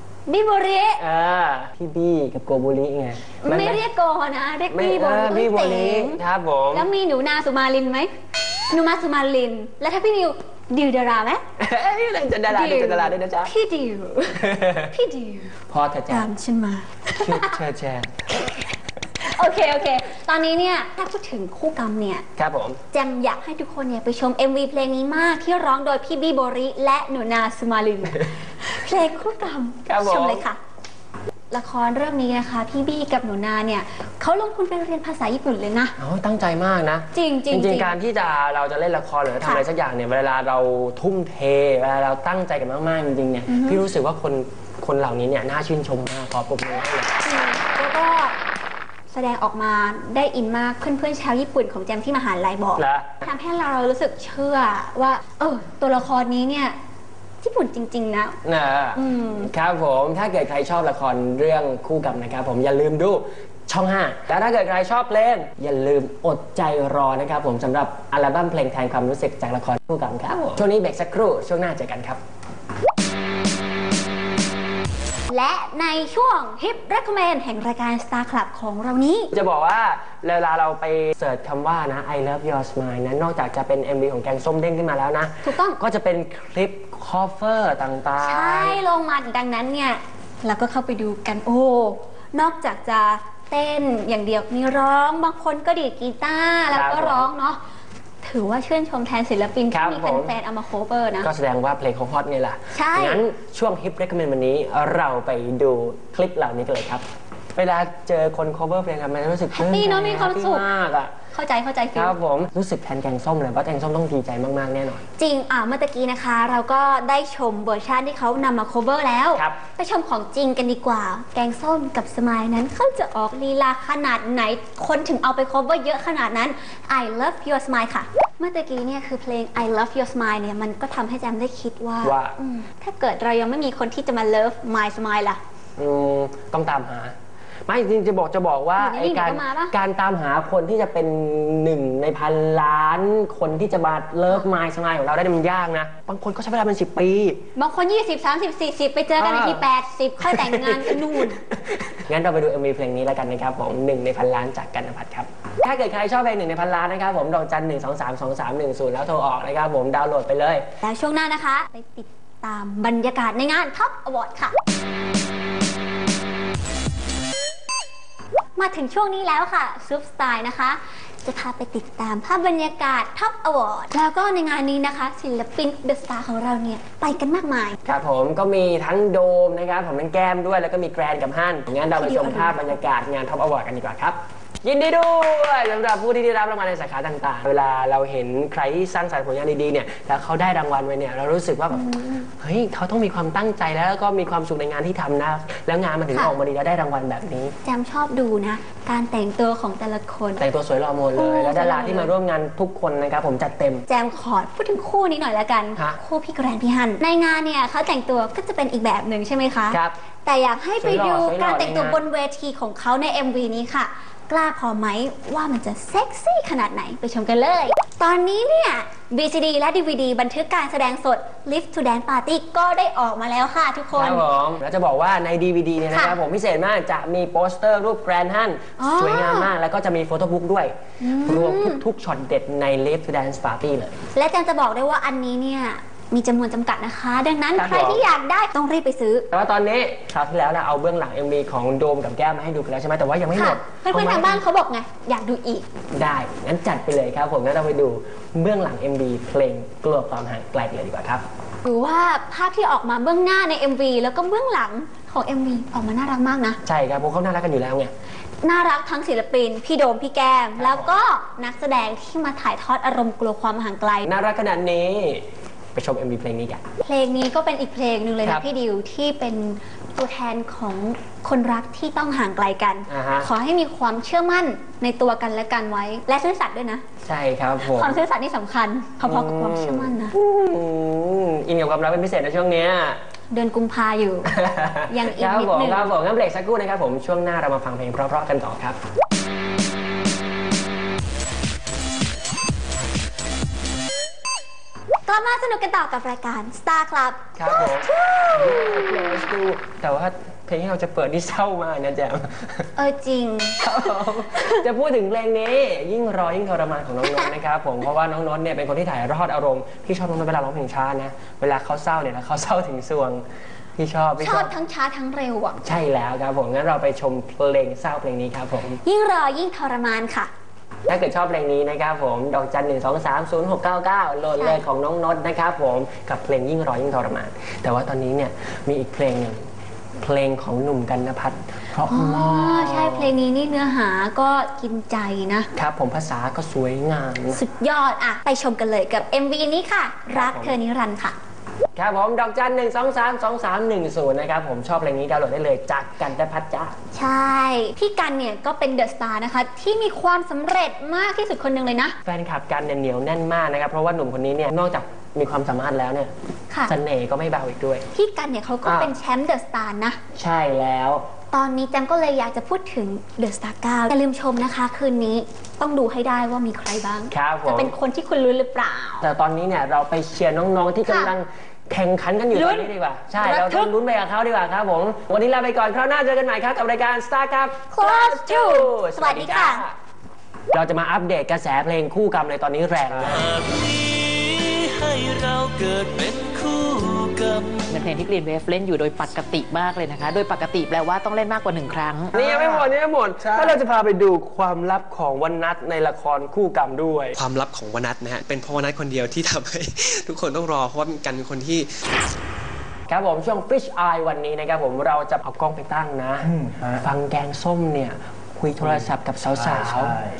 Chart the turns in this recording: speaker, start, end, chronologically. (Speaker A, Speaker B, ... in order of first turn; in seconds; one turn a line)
Speaker A: 0.3-1.0
Speaker B: 1.0-3.8
Speaker A: 3.4-6.2
Speaker B: 4.7-6.9
Speaker A: 6.7-8.1
Speaker A: 8.7-11.4
Speaker B: 11.6-13.5
Speaker A: 12.5-15.5
Speaker B: 14.3-14.9
Speaker B: 15.7-16.3
Speaker A: 16.1-17.6
Speaker B: 17.2-18.5
Speaker A: 18.4-18.6
Speaker A: 19.2-22.2
Speaker B: 22.4-22.8
Speaker A: 22.9-30.6
Speaker B: 29.9-30.4
Speaker A: 31.5-35.9
Speaker B: 36.0-47.1
Speaker A: 37.1-37.9
Speaker A: 43.5-43.8
Speaker A: 47.2-48.3
Speaker A: 49.1-56.8
Speaker B: 52.8-53.2
Speaker A: 57.4-58.4
Speaker B: 58.4-72.2
Speaker A: 58.9-59.5
Speaker A: 75.3-79.3
Speaker B: 79.3-88.8
Speaker A: 85.4-85.8
Speaker A: 88.2-97.6
Speaker B: 96.7-97.3
Speaker A: 98.2-101.3
Speaker B: 99.7-100.3
Speaker B: 101.2-107.0
Speaker A: 102.7-103.2
Speaker B: 107.5-111.1
Speaker A: 109.5-110.7
Speaker A: 111.3-112.1
Speaker B: 111.9-115.0
Speaker A: 115.2-135.4
Speaker B: 132.0-132.3
Speaker B: 135.8-137.1
Speaker B: 137.7-147.4
Speaker A: 138.8-139.7
Speaker A: 147.6-151.3
Speaker B: 149.2-149.7
Speaker B: 150.2-160.6
Speaker A: 160.8-164.6
Speaker A: 168.6-177.8
Speaker B: 177.8-197.5
Speaker A: 181.9-182.6
Speaker A: 191.7-192.3
Speaker A: 197.6-200.4
Speaker B: 200.4-203.8
Speaker A: 201.1-202.1
Speaker A: 203.9-224.3
Speaker B: 209.7-209.9
Speaker B: 210.8-212.0
Speaker B: 223.9-233.9
Speaker A: 225.9-226.2
Speaker A: 228.8-229.5
Speaker A: 231.0-231.8
Speaker A: 234.1-239.3
Speaker B: 237.5-238.1
Speaker B: 239.3-244.4
Speaker A: 243.3-245.7
Speaker B: 245.9-251.2
Speaker A: 251.6-256.6
Speaker B: 256.6-257.9
Speaker A: 258.4-264.1
Speaker B: 260.6-261.0
Speaker B: 264.1-266.6
Speaker A: 266.8-276.8
Speaker B: 272.9-273.3
Speaker B: 277.0-278.0
Speaker A: 277.6-280.1
Speaker B: 279.0-283.0
Speaker A: 283.3-284.3
Speaker B: 284.2-288.8
Speaker A: 284.9-285.9
Speaker A: 295.1-299.2
Speaker B: 297.4-302.7
Speaker A: 302.8-304.6
Speaker B: 303.6-313.2
Speaker A: 307.0-307.3
Speaker B: 313.8-314.5
Speaker A: 314.2-315.6
Speaker B: 315.6-318.8
Speaker A: 318.7-320.3
Speaker B: 320.9-333.1
Speaker A: 331.8-335.5
Speaker B: 335.5-337.4
Speaker A: 337.3-341.2
Speaker B: 340.1-340.6
Speaker B: 341.8-346.8
Speaker A: 346.9-351.9
Speaker B: 352.0-356.1
Speaker B: 356.7-357.8
Speaker A: 357.9-360.0
Speaker B: 358.6-358.9
Speaker B: 360.1-361.1
Speaker A: 361.3-369.0
Speaker B: 367.1-367.7
Speaker B: 369.0-379.7
Speaker A: 370.9-371.1
Speaker A: 372.3-373.7
Speaker A: 377.7-379.6
Speaker B: 380.5-383.3
Speaker C: 383.1-387.7
Speaker D: 387.7-392.1
Speaker B: 392.1-397.3
Speaker E: 392.2-392.6
Speaker E: 397.2-401.7
Speaker B: 402.9-410.0